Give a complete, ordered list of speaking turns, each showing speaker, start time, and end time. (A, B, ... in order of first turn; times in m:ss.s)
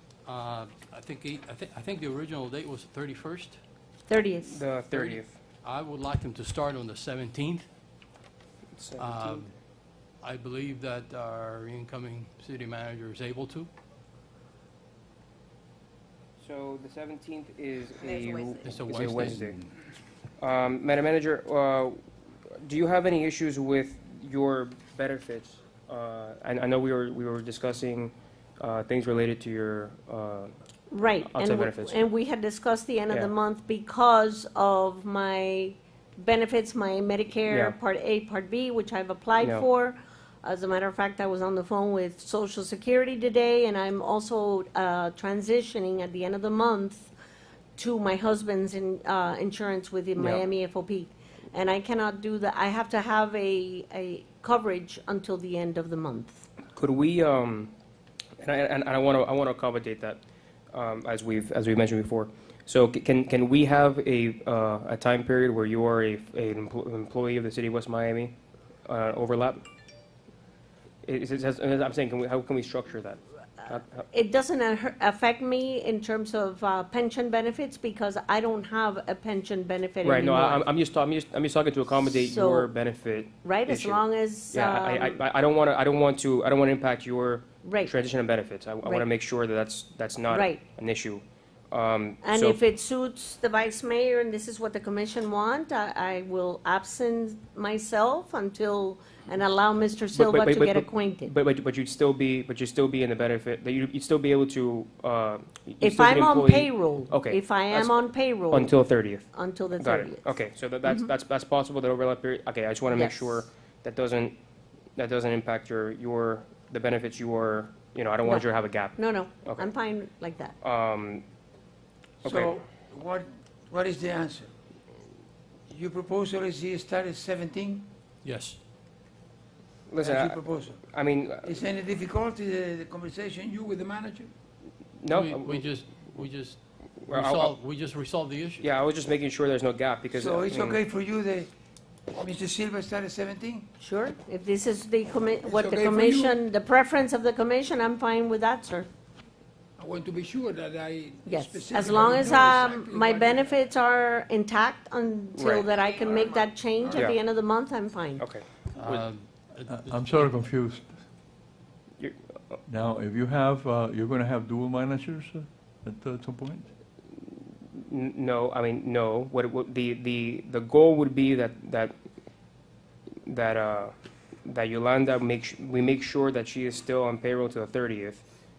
0:00.3-0:03.6 A
0:04.1-0:04.6 B
0:04.4-0:05.3 C
0:04.9-0:07.7 A
0:08.8-0:09.5 C
0:09.0-0:09.5 A
0:10.2-0:13.7 A
0:16.4-0:19.6 C
0:18.6-0:19.6 A
0:20.4-0:22.0 C
0:22.6-0:30.5 C
0:30.9-0:47.1 B
0:31.3-0:32.0 C
0:37.5-0:37.8 C
0:39.4-0:39.7 C
0:47.8-0:56.5 B
0:50.2-0:50.4 C
0:56.7-0:57.7 C
0:58.4-1:00.2 C
1:00.7-1:08.3 C
1:08.9-1:09.6 C
1:11.0-1:14.0 C
1:14.1-1:20.7 B
1:20.0-1:32.6 C
1:22.1-1:22.7 B
1:23.4-1:25.2 B
1:27.6-1:27.9 B
1:30.3-1:30.6 B
1:32.2-1:41.3 B
1:40.1-1:54.4 C
1:45.8-1:48.8 B
1:49.3-1:51.1 B
1:52.9-1:53.4 B
1:55.0-1:59.7 C
1:58.2-2:00.6 B
2:00.6-2:01.3 C
2:02.2-2:02.6 C
2:02.2-2:04.5 D
2:05.7-2:07.9 D
2:08.2-2:08.6 A
2:09.9-2:11.5 C
2:10.0-2:10.8 D
2:11.4-2:14.3 D
2:15.0-2:15.6 C
2:15.1-2:18.7 A
2:17.0-2:17.5 C
2:18.6-2:20.8 C
2:20.1-2:21.5 D
2:22.2-2:23.7 D
2:23.8-2:28.9 B
2:25.4-2:26.4 D
2:29.8-2:33.6 D
2:31.3-2:38.3 B
2:35.3-2:35.7 C
2:38.2-2:38.4 C
2:38.8-2:40.5 A
2:39.7-2:41.0 E
2:42.0-2:42.6 C
2:42.7-2:46.7 E
2:47.8-2:52.0 C
2:53.3-2:53.9 C
2:54.4-2:58.2 C